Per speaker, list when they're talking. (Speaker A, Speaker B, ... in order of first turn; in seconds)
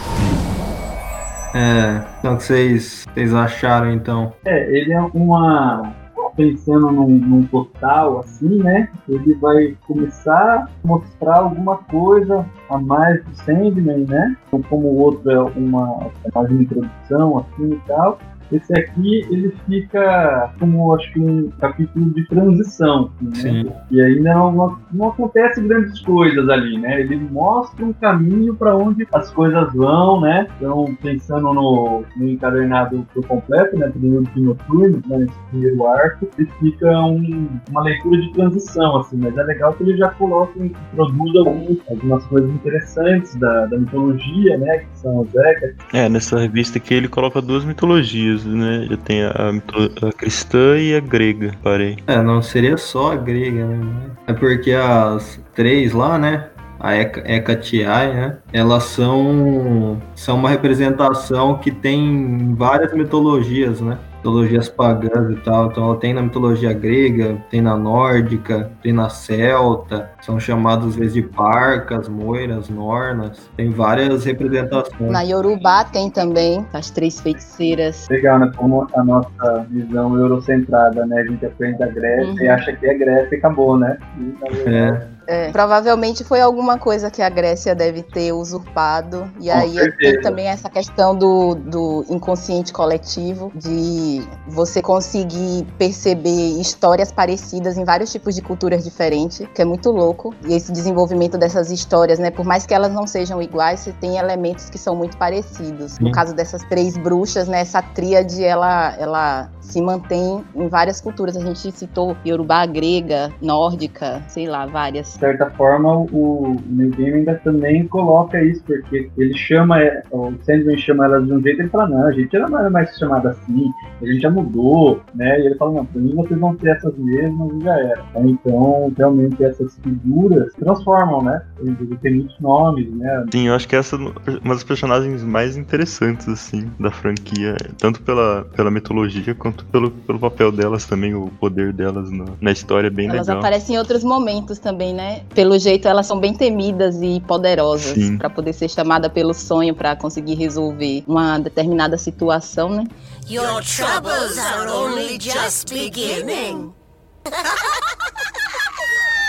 Speaker A: 1.5-4.4, 23.3-23.7, 52.1-75.2, 84.5-85.0, 106.0-106.2
Speaker B: 4.5-45.8, 78.1-85.1, 89.5-90.3, 115.2-133.3
Speaker C: 45.9-52.0, 133.3-143.5, 147.8-148.2
Speaker D: 75.1-78.1, 82.2-82.6, 85.3-115.2, 143.0-152.9
Speaker E: 153.3-156.7